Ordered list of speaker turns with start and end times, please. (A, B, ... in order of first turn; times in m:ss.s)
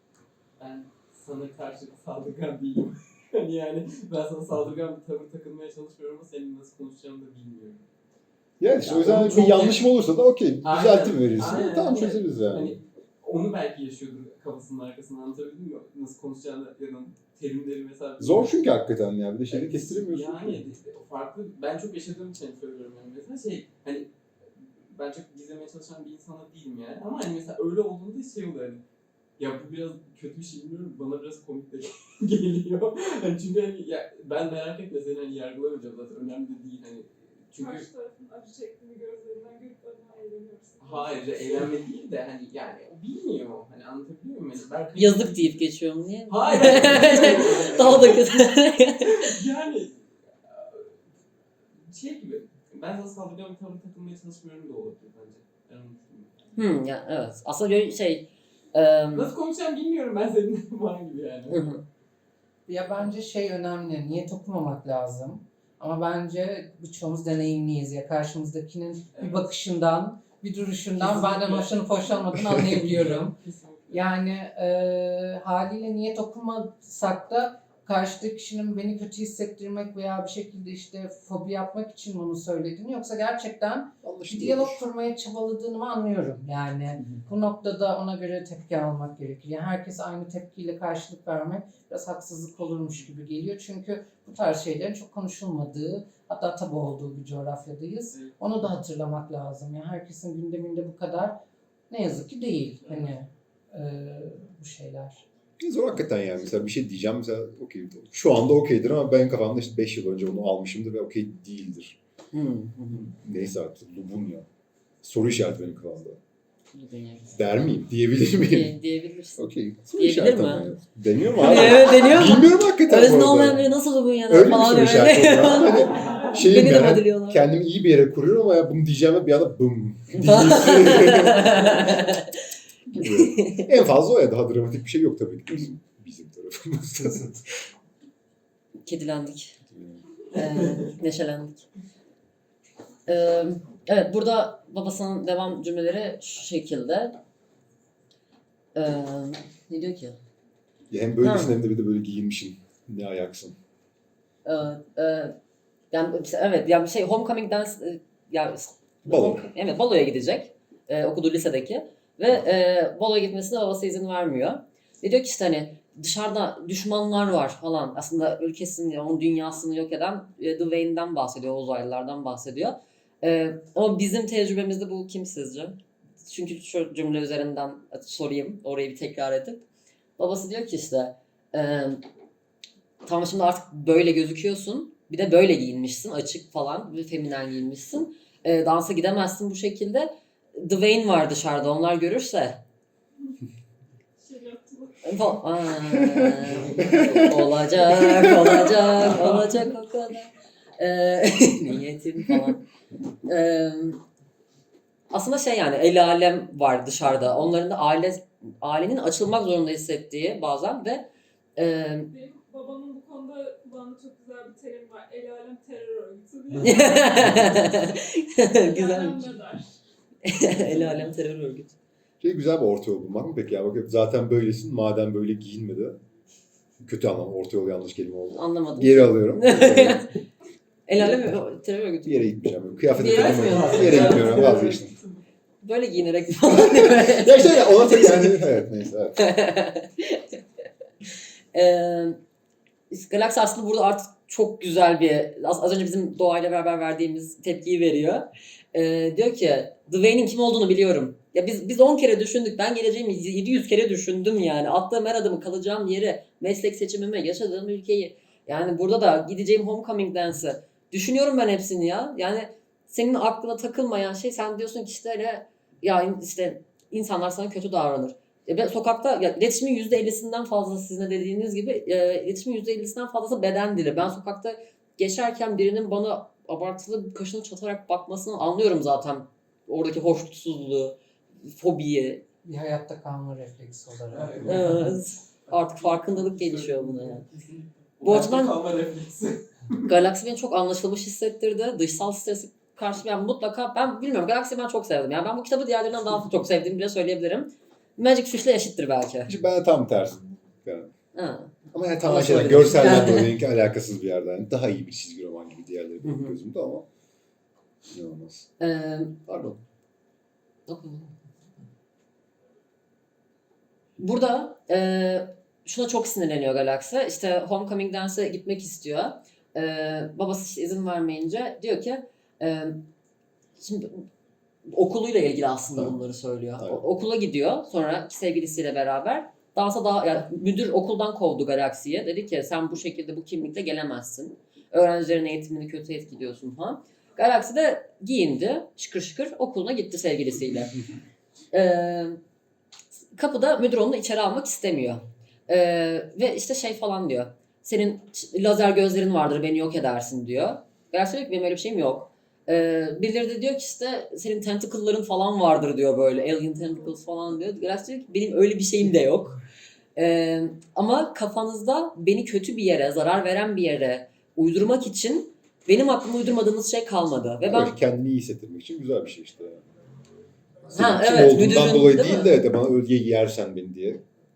0:00.6-0:07.8 A
0:08.6-0:12.8 B
0:08.8-0:09.7 C
0:09.0-0:09.8 A
0:10.6-0:18.5 A
0:18.2-0:20.6 B
0:19.5-0:24.1 A
0:24.8-0:28.8 A
0:29.4-0:37.9 A
0:37.5-0:41.7 D
0:40.8-0:45.6 A
0:45.0-0:49.3 C
0:46.3-0:48.3 A
0:49.0-0:50.9 A
0:51.8-0:56.5 A
0:56.6-0:59.3 C
0:59.1-1:01.8 A
1:01.5-1:01.8 C
1:02.7-1:13.4 E
1:09.1-1:09.4 A
1:11.0-1:11.8 A
1:12.7-1:14.0 A
1:13.9-1:45.2 E
1:24.0-1:24.8 B
1:45.6-1:52.0 B
1:52.3-1:53.1 C
1:53.0-1:54.5 B
1:55.0-1:56.2 B
1:56.7-1:57.3 C
1:57.3-1:58.8 B
1:58.4-2:00.7 C
1:59.4-2:03.7 B
2:01.4-2:07.5 C
2:04.3-2:12.0 B
2:05.9-2:06.3 D
2:10.2-2:12.3 C
2:12.9-2:17.7 B
2:13.0-2:13.7 C
2:18.8-2:19.6 C
2:19.7-2:20.0 B
2:20.3-2:21.7 C
2:23.1-2:27.2 C
2:28.7-2:30.2 C
2:30.9-2:33.6 B
2:31.2-2:31.6 C
2:34.4-2:35.4 C
2:35.9-2:59.6 C
2:39.0-2:39.4 B
3:00.2-3:02.0 C
3:03.0-3:12.6 C
3:14.2-3:15.4 D
3:15.0-3:22.6 C
3:15.8-3:18.8 B
3:23.2-3:24.0 C
3:25.1-3:32.1 C
3:32.1-3:39.8 D
3:36.6-3:39.3 C
3:40.2-3:41.7 C
3:40.6-3:41.1 D
3:42.2-3:46.0 B
3:46.8-3:50.1 B
3:48.3-3:50.1 C
3:50.9-3:52.3 C
3:52.0-3:54.9 B
3:52.9-3:54.7 C
3:53.0-3:55.2 A
3:55.6-3:58.4 C
3:56.5-3:59.2 B
3:59.2-4:00.4 C
4:01.5-4:02.2 C
4:02.9-4:42.2 C
4:42.4-4:44.6 E
4:44.1-4:49.9 A
4:44.4-4:47.2 C
4:48.0-4:48.6 C
4:49.9-4:59.3 C
4:59.3-5:00.9 B
5:01.1-5:03.3 C
5:01.7-5:06.8 B
5:06.0-5:06.4 C
5:07.9-5:08.5 B
5:08.6-5:09.2 C
5:09.3-5:09.6 B
5:10.7-5:11.1 C
5:14.0-5:22.9 C
5:23.6-5:24.1 C
5:24.6-5:40.8 C
5:26.6-5:26.8 B
5:41.5-5:42.2 C
5:43.1-5:59.4 C
6:00.0-6:07.7 C
6:07.4-6:09.6 B
6:10.6-6:14.0 B
6:10.7-6:12.4 C